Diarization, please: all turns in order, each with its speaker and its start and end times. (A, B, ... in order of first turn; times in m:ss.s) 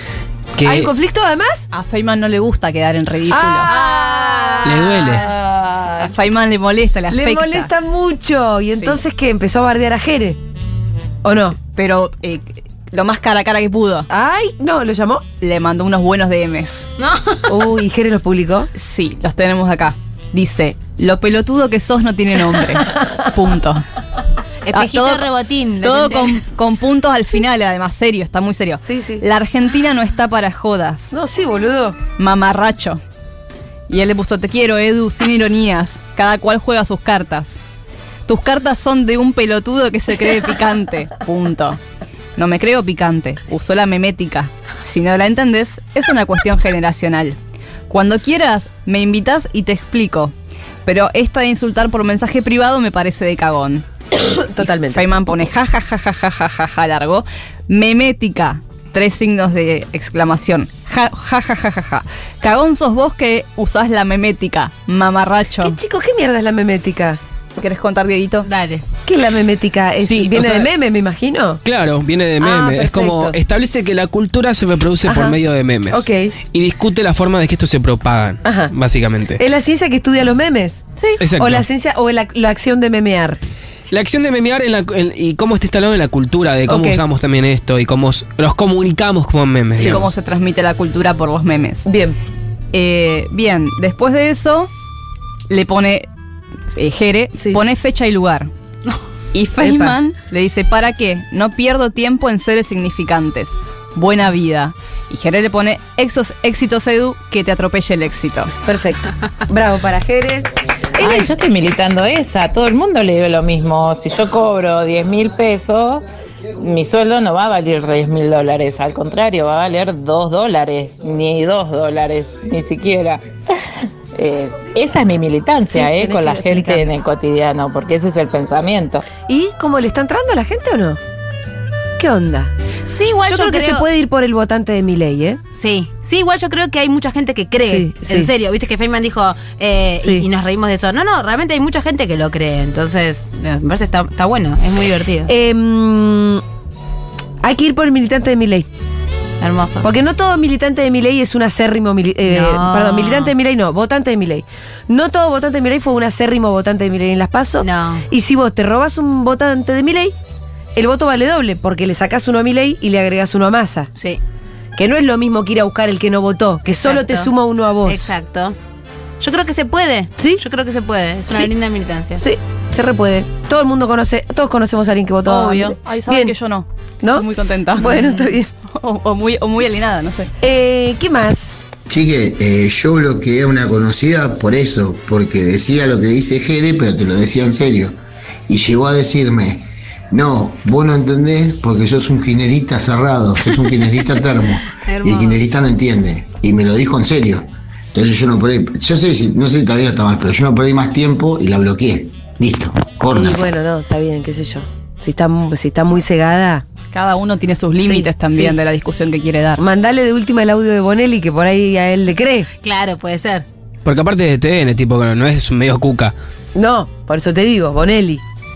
0:00.6-0:00.9 A
0:00.6-0:01.7 B
0:01.7-0:03.7 C
0:03.3-0:06.1 B
0:03.6-0:05.2 D
0:04.6-0:05.2 A
0:06.0-0:07.7 C
0:07.1-0:10.4 B
0:11.2-0:11.6 B
0:11.8-0:14.1 C
0:14.1-0:15.2 B
0:15.4-0:16.9 C
0:17.0-0:17.6 D
0:17.5-0:18.7 B
0:18.8-0:23.8 C
0:24.6-0:26.4 D
0:24.7-0:31.1 C
0:28.8-0:29.2 B
0:31.1-0:32.0 B
0:32.2-0:33.0 C
0:33.9-0:37.6 C
0:38.3-0:41.8 C
0:42.4-0:47.4 C
0:47.9-0:50.3 C
0:50.8-0:53.9 C
0:54.2-0:55.0 B
0:54.6-1:05.8 C
1:05.6-1:07.2 B
1:07.6-1:08.5 C
1:08.4-1:08.8 D
1:09.1-1:11.6 B
1:10.0-1:10.7 A
1:11.6-1:19.4 A
1:12.4-1:13.4 B
1:15.0-1:15.4 B
1:15.9-1:16.3 B
1:18.4-1:18.7 B
1:19.4-1:23.4 B
1:21.2-1:21.6 A
1:23.9-1:30.1 A
1:26.7-1:27.0 B
1:29.8-1:30.1 B
1:29.8-1:31.9 C
1:31.9-1:32.2 B
1:32.7-1:34.7 C
1:35.5-1:36.1 C
1:36.8-1:38.5 C
1:37.4-1:37.6 B
1:39.3-1:48.5 C
1:39.6-1:40.0 B
1:48.6-1:51.4 B
1:51.0-1:56.0 E
1:56.6-2:03.3 E
2:04.1-2:09.0 E
2:05.7-2:06.9 B
2:09.2-2:11.0 B
2:12.0-2:12.5 B
2:12.9-2:13.9 D
2:13.2-2:15.4 B
2:15.6-2:25.3 D
2:17.6-2:18.3 B
2:20.0-2:20.3 B
2:25.3-2:26.4 B
2:27.4-2:28.7 B
2:29.4-2:29.9 D
2:29.8-2:40.1 B
2:32.3-2:33.3 D
2:37.6-2:38.0 D
2:40.8-2:43.9 B
2:44.8-2:48.1 B
2:46.8-2:47.3 D
2:47.9-2:48.6 D
2:49.2-2:52.2 D
2:52.2-2:56.3 B
2:55.3-2:58.1 C
2:55.4-2:55.7 D
2:57.8-2:58.5 B
2:57.9-2:58.3 D
2:58.7-3:00.3 C
3:00.4-3:01.6 B
3:01.9-3:08.0 F
3:08.5-3:23.4 F
3:14.8-3:15.4 D
3:23.1-3:26.6 B
3:26.9-3:29.6 C
3:27.8-3:28.6 B
3:29.6-3:32.5 B
3:32.6-3:33.4 D
3:33.8-3:36.1 A
3:36.6-3:38.2 B